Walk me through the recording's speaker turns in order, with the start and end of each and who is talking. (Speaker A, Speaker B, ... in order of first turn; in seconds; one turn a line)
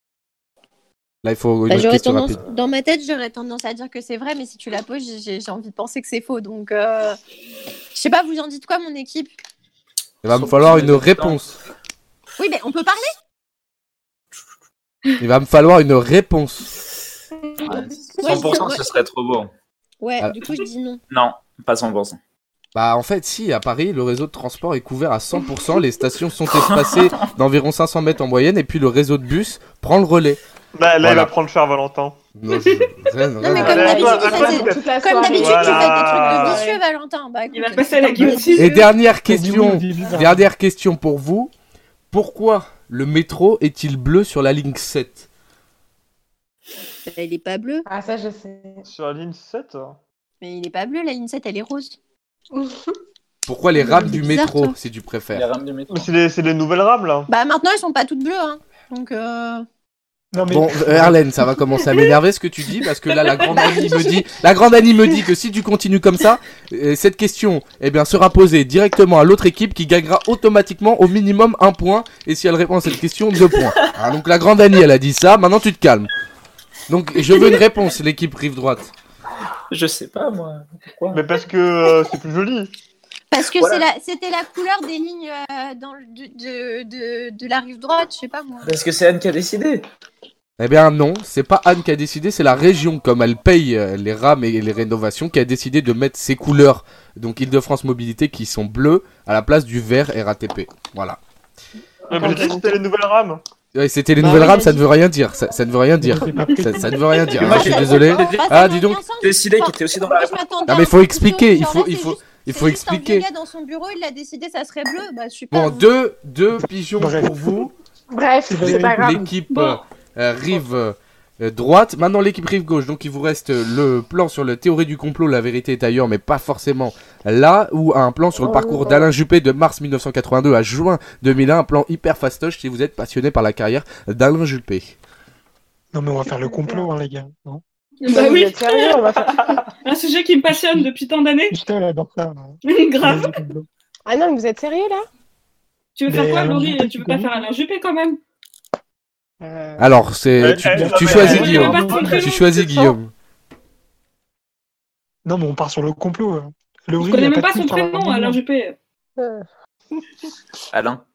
Speaker A: 1.2-2.4
Speaker B: 1.7-7.2
Speaker B: 7.9-9.4
Speaker A: 10.2-11.6
Speaker C: 10.3-11.4
Speaker B: 12.4-13.1
Speaker A: 15.2-16.7
Speaker C: 17.6-19.5
Speaker B: 18.2-18.9
Speaker B: 20.0-21.0
Speaker A: 20.2-20.5
Speaker C: 21.1-22.2
Speaker A: 22.7-30.4
Speaker D: 30.8-32.2
Speaker A: 31.0-31.3
Speaker A: 32.4-34.0
Speaker B: 33.4-38.6
Speaker D: 33.5-36.7
Speaker E: 33.7-36.1
Speaker F: 36.3-36.7
Speaker F: 37.5-38.9
Speaker A: 38.5-41.5
Speaker G: 39.3-40.5
Speaker A: 42.1-45.3
Speaker B: 47.1-47.9
Speaker E: 47.9-48.8
Speaker D: 48.8-50.0
Speaker B: 50.4-52.0
Speaker E: 52.5-52.8
Speaker A: 53.5-55.5
Speaker B: 53.7-54.7
Speaker C: 55.3-56.1
Speaker D: 55.9-57.3
Speaker B: 57.3-59.7
Speaker G: 60.3-61.2
Speaker A: 60.5-76.1
Speaker F: 63.1-64.1
Speaker A: 76.9-78.9
Speaker C: 79.7-81.2
Speaker D: 81.1-82.7
Speaker B: 83.3-88.7
Speaker C: 83.5-83.8
Speaker C: 88.6-89.8
Speaker A: 90.6-101.2
Speaker D: 102.1-103.4
Speaker E: 102.1-102.7
Speaker G: 102.2-102.5
Speaker A: 103.7-109.0
Speaker B: 104.2-104.8
Speaker G: 106.0-107.1
Speaker C: 107.3-108.7
Speaker B: 107.3-115.9
Speaker C: 109.2-110.6
Speaker A: 110.7-113.3
Speaker A: 115.5-117.7
Speaker G: 117.0-117.4
Speaker E: 118.1-119.3
Speaker G: 118.5-119.3
Speaker A: 118.6-135.0
Speaker F: 119.5-119.8
Speaker E: 128.4-129.1
Speaker G: 135.9-137.6
Speaker E: 136.3-136.9
Speaker F: 138.0-139.2
Speaker E: 138.1-139.7
Speaker F: 139.8-141.6
Speaker G: 140.5-140.9
Speaker G: 141.5-143.7
Speaker F: 142.6-143.4
Speaker E: 144.1-145.0
Speaker F: 145.9-148.2
Speaker G: 146.1-147.5
Speaker E: 149.5-149.7
Speaker G: 149.6-149.8
Speaker A: 149.8-153.1
Speaker D: 150.4-152.6
Speaker G: 150.4-152.3
Speaker F: 151.2-152.4
Speaker G: 155.2-158.4
Speaker F: 157.0-158.8
Speaker E: 159.2-159.4
Speaker C: 160.7-161.0